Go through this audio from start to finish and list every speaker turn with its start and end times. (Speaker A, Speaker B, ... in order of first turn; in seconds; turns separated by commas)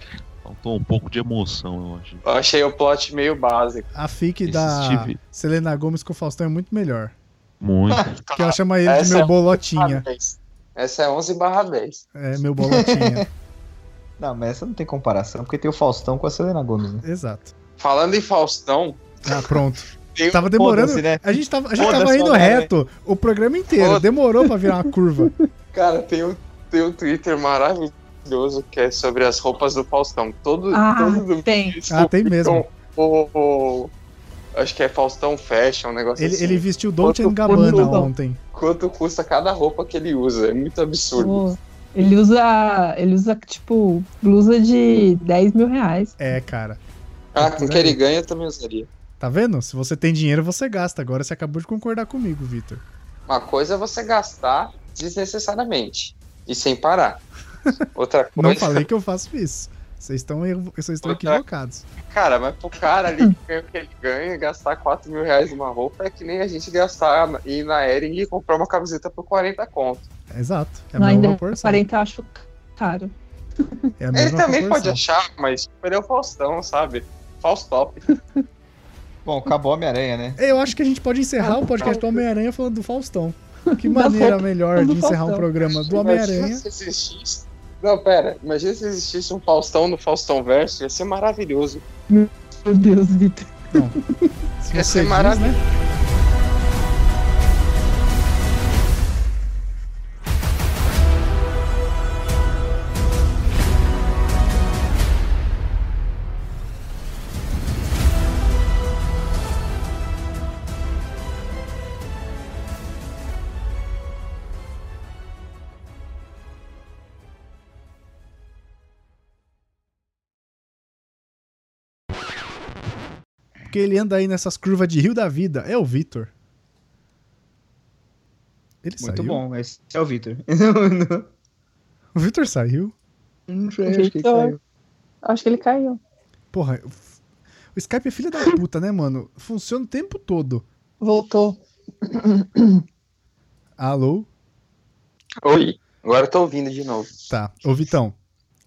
Speaker A: 0.4-2.2, Speaker B: 2.2-3.9, Speaker C: 3.9-7.1, Speaker A: 4.5-5.2, Speaker A: 7.6-8.2, Speaker B: 8.2-12.0, Speaker C: 8.3-10.1, Speaker C: 12.2-13.2, Speaker D: 12.6-13.3, Speaker D: 14.2-17.1, Speaker C: 17.0-17.5, Speaker B: 17.8-19.4, Speaker C: 19.2-25.3, Speaker B: 20.1-20.5, Speaker D: 20.6-21.2, Speaker D: 21.8-22.7, Speaker B: 23.8-24.1, Speaker B: 25.7-33.9, Speaker E: 30.7-31.8, Speaker C: 31.9-32.6, Speaker B: 34.5-38.0, Speaker C: 36.2-38.4, Speaker E: 37.3-38.1, Speaker B: 38.5-41.4, Speaker E: 41.2-46.2, Speaker C: 46.2-46.8, Speaker B: 47.3-48.9, Speaker C: 47.4-48.0, Speaker C: 49.2-52.8, Speaker B: 53.3-57.2, Speaker B: 58.0-58.9, Speaker C: 58.4-61.9, Speaker B: 61.0-61.4, Speaker B: 62.1-70.1, Speaker C: 70.3-71.8, Speaker E: 71.0-73.1, Speaker C: 74.0-75.0, Speaker B: 74.1-78.0, Speaker D: 79.2-80.4, Speaker C: 80.4-86.7, Speaker B: 81.4-82.2, Speaker E: 83.8-85.5, Speaker B: 85.7-91.8, Speaker E: 92.1-93.9, Speaker C: 94.6-95.6, Speaker B: 94.7-95.6, Speaker C: 123.7-126.3, Speaker C: 128.8-129.4, Speaker D: 129.0-131.3, Speaker C: 132.2-132.9, Speaker D: 133.5-134.6, Speaker E: 133.9-134.6, Speaker E: 135.2-136.0, Speaker C: 136.5-137.0, Speaker C: 137.8-140.6, Speaker E: 141.0-141.6, Speaker C: 143.8-144.3, Speaker B: 145.4-147.2, Speaker C: 147.3-148.2